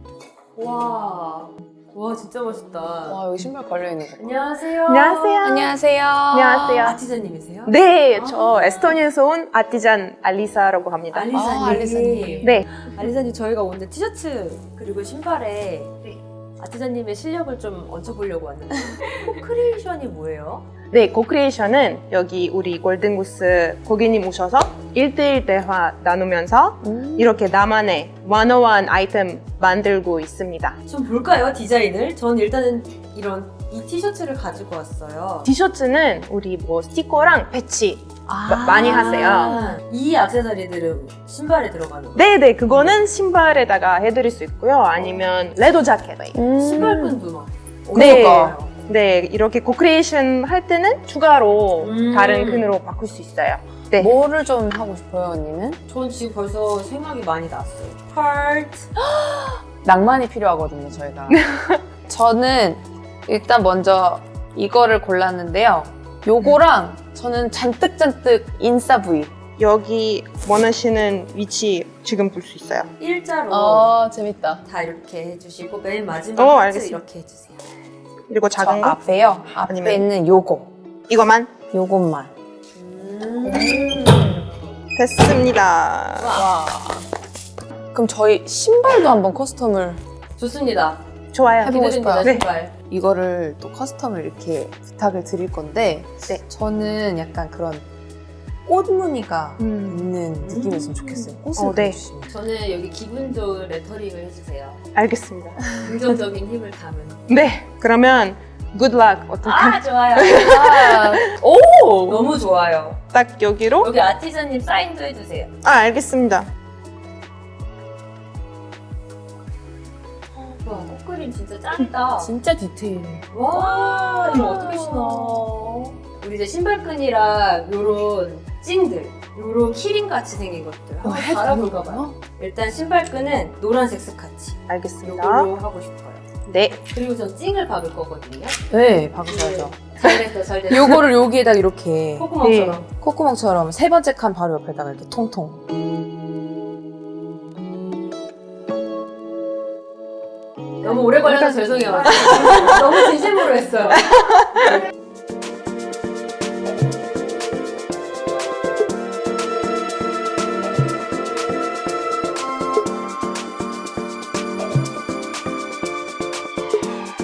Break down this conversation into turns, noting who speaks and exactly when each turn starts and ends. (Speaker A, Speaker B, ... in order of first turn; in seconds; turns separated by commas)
Speaker A: 0.6-3.2, Speaker B: 3.1-4.2, Speaker A: 4.2-5.5, Speaker C: 4.8-5.8, Speaker B: 5.4-7.0, Speaker C: 6.3-7.0, Speaker A: 6.5-7.7, Speaker C: 7.7-11.8, Speaker A: 8.3-8.6, Speaker A: 11.1-20.6, Speaker B: 11.3-12.5, Speaker C: 12.4-12.7, Speaker C: 20.9-30.8, Speaker B: 26.8-27.3, Speaker A: 30.9-35.5, Speaker C: 35.4-39.6, Speaker A: 38.3-43.0, Speaker B: 39.0-39.8, Speaker C: 42.1-46.4, Speaker B: 46.3-47.1, Speaker A: 46.5-48.7, Speaker B: 47.9-48.6, Speaker C: 47.9-54.1, Speaker A: 51.8-52.7, Speaker B: 54.0-55.8, Speaker A: 55.9-58.9, Speaker B: 59.0-61.4, Speaker C: 61.3-61.8, Speaker B: 62.1-69.3, Speaker C: 69.6-72.9, Speaker A: 73.0-74.0, Speaker B: 73.5-74.6, Speaker A: 74.6-77.6, Speaker C: 76.3-77.0, Speaker C: 78.3-79.0, Speaker B: 78.5-80.7, Speaker C: 79.6-80.1, Speaker C: 81.1-81.6, Speaker A: 81.7-82.3, Speaker A: 83.0-84.4, Speaker B: 83.3-84.2, Speaker C: 83.7-84.1, Speaker C: 85.0-86.4, Speaker A: 86.2-86.5, Speaker B: 86.3-87.0, Speaker B: 87.9-90.0, Speaker A: 90.4-91.0, Speaker C: 91.3-92.4, Speaker A: 91.6-92.7, Speaker B: 91.6-97.8, Speaker B: 98.7-102.3, Speaker C: 99.6-100.1, Speaker A: 100.4-101.4, Speaker C: 101.5-102.0, Speaker A: 102.3-104.8, Speaker C: 104.9-105.7, Speaker A: 105.7-107.2, Speaker C: 107.3-111.3, Speaker A: 109.4-110.9, Speaker B: 110.2-112.2, Speaker A: 112.1-113.0, Speaker C: 113.1-113.9, Speaker A: 113.8-115.5, Speaker C: 115.6-116.5, Speaker A: 120.5-122.3, Speaker B: 122.2-125.9, Speaker A: 123.3-136.2, Speaker B: 131.0-132.2, Speaker C: 134.7-135.5, Speaker C: 136.4-136.8, Speaker A: 136.9-138.6, Speaker B: 138.7-145.6, Speaker A: 139.2-141.0, Speaker A: 142.2-142.8, Speaker C: 142.4-142.8, Speaker A: 150.8-154.1, Speaker B: 151.4-152.8, Speaker C: 154.1-154.6